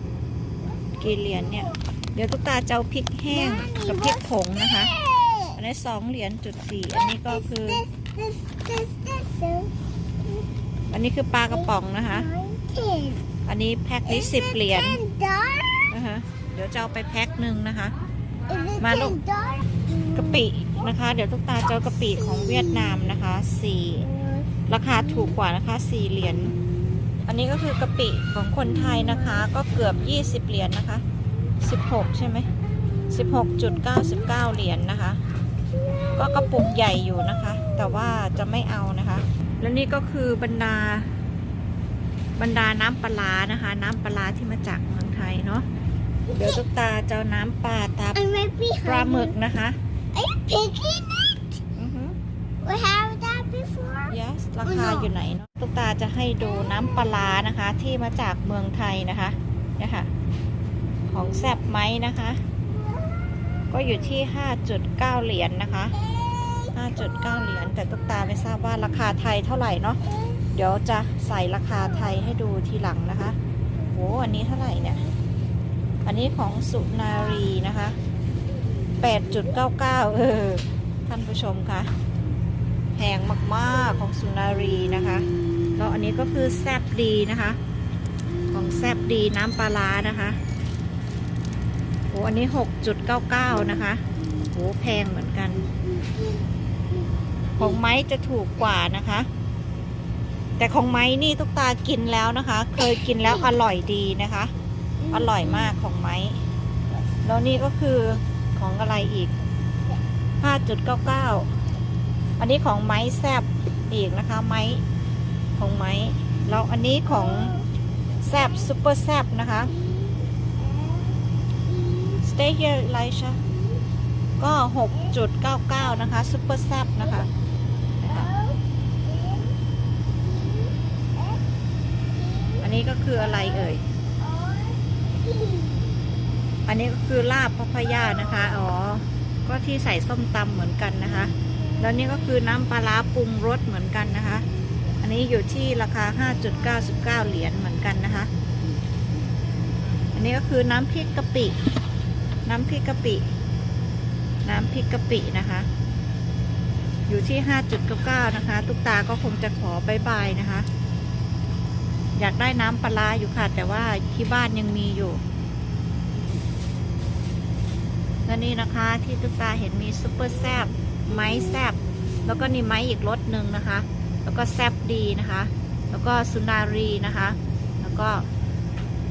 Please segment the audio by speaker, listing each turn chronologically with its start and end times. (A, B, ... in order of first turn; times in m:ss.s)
0:00.6-0:01.8 A
0:01.0-0:04.9 B
0:03.3-0:05.6 A
0:05.6-0:07.8 B
0:07.1-0:09.7 A
0:10.9-0:12.3 B
0:11.5-0:13.3 A
0:13.5-0:15.0 B
0:14.1-0:15.8 A
0:15.9-0:18.0 B
0:18.5-0:20.5 A
0:18.8-0:19.2 B
0:20.2-0:24.1 B
0:22.4-0:23.0 A
0:24.0-0:25.3 A
0:24.7-0:26.6 B
0:26.4-0:27.0 A
0:27.3-0:31.0 B
0:28.9-0:29.5 A
0:31.6-0:32.5 B
0:32.8-0:34.1 A
0:33.1-0:35.2 B
0:35.7-0:38.1 A
0:36.2-0:41.1 B
0:42.4-0:45.7 B
0:46.3-0:48.2 B
0:48.2-0:49.4 A
0:48.8-0:49.8 B
0:50.1-0:51.6 A
0:51.8-0:52.2 B
0:52.6-0:55.1 A
0:54.1-1:00.1 B
1:01.1-1:02.4 B
1:02.7-1:03.9 A
1:03.7-1:06.0 B
1:06.1-1:06.7 A
1:06.7-1:10.0 B
1:10.1-1:10.4 A
1:10.6-1:13.4 B
1:13.9-1:15.0 B
1:14.2-1:15.1 A
1:16.0-1:18.0 B
1:19.0-1:21.9 B
1:23.0-1:27.6 B
1:28.5-1:30.4 B
1:32.1-1:35.6 B
1:35.7-1:37.1 A
1:37.6-1:39.3 B
1:40.6-1:44.5 B
1:45.0-1:45.7 A
1:45.1-1:46.4 B
1:47.2-1:49.3 B
1:50.4-1:51.5 B
1:52.4-1:54.8 B
1:55.6-1:57.5 B
1:57.1-1:57.7 A
1:58.2-1:59.7 B
1:59.6-2:02.2 A
2:02.2-2:03.4 B
2:04.4-2:07.3 B
2:08.0-2:08.3 B
2:08.1-2:09.6 A
2:10.2-2:11.4 A
2:12.1-2:12.7 A
2:12.6-2:13.8 B
2:13.4-2:16.0 A
2:16.7-2:24.5 B
2:25.0-2:28.3 B
2:30.1-2:31.6 B
2:32.5-2:33.3 B
2:34.4-2:35.7 B
2:37.1-2:40.7 B
2:42.2-2:45.2 B
2:48.3-2:58.2 B